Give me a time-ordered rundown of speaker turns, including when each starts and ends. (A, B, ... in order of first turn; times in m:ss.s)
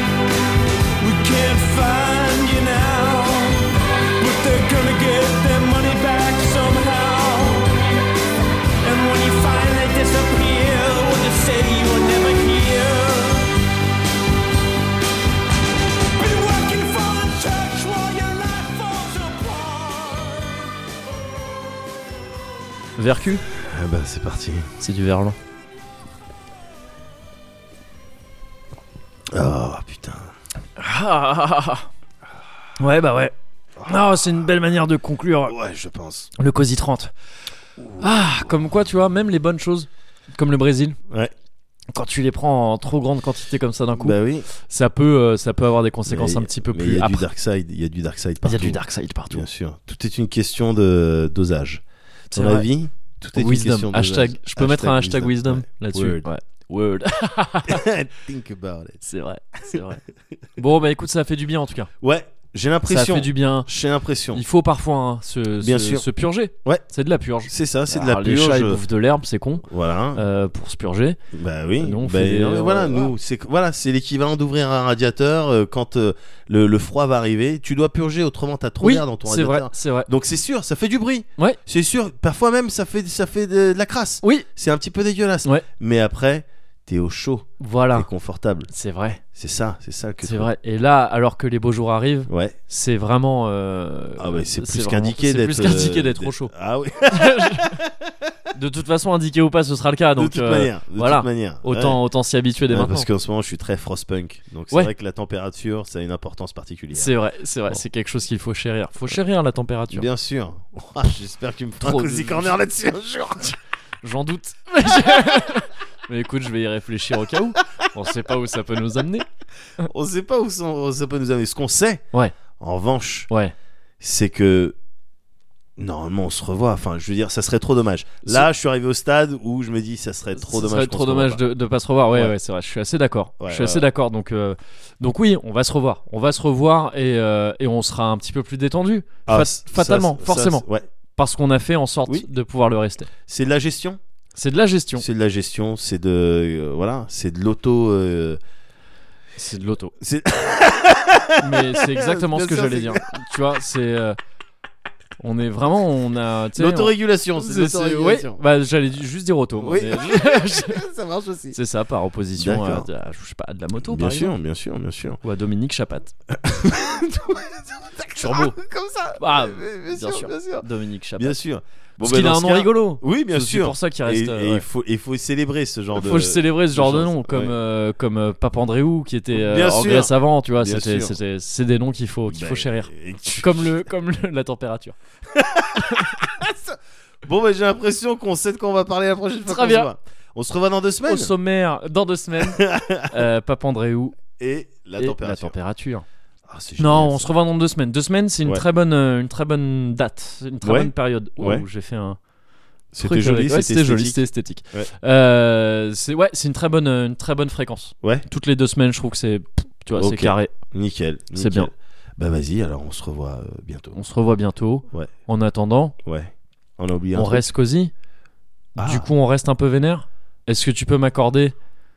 0:01.0-0:07.8 A
0:08.8-0:13.5 A
0:16.1-0:20.5 A
0:23.0-0:23.4 B
0:23.6-0:24.7 C
0:24.8-0:25.4 B
0:29.3-0:30.3 C
0:30.8-0:31.9 B
0:32.8-0:33.3 B
0:33.8-0:34.4 C
0:33.8-0:35.6 B
0:35.4-0:36.3 C
0:36.4-0:37.1 B
0:37.8-0:38.3 C
0:38.0-0:41.0 B
0:41.9-0:47.2 B
0:44.0-0:44.5 C
0:46.0-0:51.8 C
0:48.4-0:49.4 B
0:52.3-0:56.3 C
0:52.3-0:52.6 B
0:53.3-0:57.9 B
0:57.7-0:59.0 C
0:59.0-1:00.0 B
1:00.6-1:01.9 B
1:02.0-1:04.4 C
1:02.9-1:03.7 B
1:04.3-1:11.2 B
1:05.6-1:06.0 C
1:07.5-1:08.8 C
1:09.6-1:10.2 C
1:11.3-1:28.7 C
1:11.8-1:13.1 B
1:18.8-1:20.1 B
1:27.6-1:28.1 B
1:28.7-1:29.2 B
1:29.3-1:30.5 C
1:30.2-1:36.5 B
1:32.3-1:32.6 C
1:34.2-1:38.1 C
1:37.1-1:37.8 B
1:38.5-1:43.1 B
1:40.2-1:42.0 C
1:42.7-1:47.1 C
1:46.9-1:50.1 B
1:49.9-1:53.6 C
1:51.8-1:52.5 B
1:54.0-1:59.2 B
1:59.8-2:02.0 C
2:02.6-2:03.3 C
2:03.3-2:03.5 B
2:04.0-2:04.8 C
2:05.8-2:11.4 C
2:10.3-2:23.1 B
2:13.4-2:13.8 C
2:19.3-2:20.8 C
2:23.3-2:24.0 C
2:24.4-2:25.0 B
2:25.0-2:28.4 C
2:29.4-2:29.9 B
2:30.0-2:33.0 C
2:31.4-2:34.2 B
2:35.2-2:40.8 B
2:36.6-2:38.4 C
2:39.6-2:41.6 C
2:41.5-2:44.3 B
2:42.4-2:42.9 C
2:43.8-2:45.2 C
2:45.2-2:46.1 B
2:46.3-2:50.6 C
2:48.2-2:48.6 B
2:49.2-2:51.4 B
2:51.2-2:57.5 C
2:52.0-2:54.6 B
2:55.9-3:04.9 B
2:59.3-3:01.1 C
3:02.3-3:03.8 C
3:05.3-3:11.3 C
3:09.4-3:09.9 B
3:11.1-3:14.2 B
3:12.4-3:13.1 C
3:14.4-3:15.5 C
3:15.0-3:16.0 B
3:16.5-3:17.3 C
3:16.8-3:22.2 B
3:20.6-3:21.6 C
3:22.9-3:24.2 C
3:23.0-3:30.5 B
3:29.9-3:34.0 C
3:31.4-3:31.7 B
3:33.9-3:35.9 B
3:36.0-3:37.5 C
3:37.1-3:37.9 B
3:38.8-3:39.0 C
3:38.8-3:41.5 B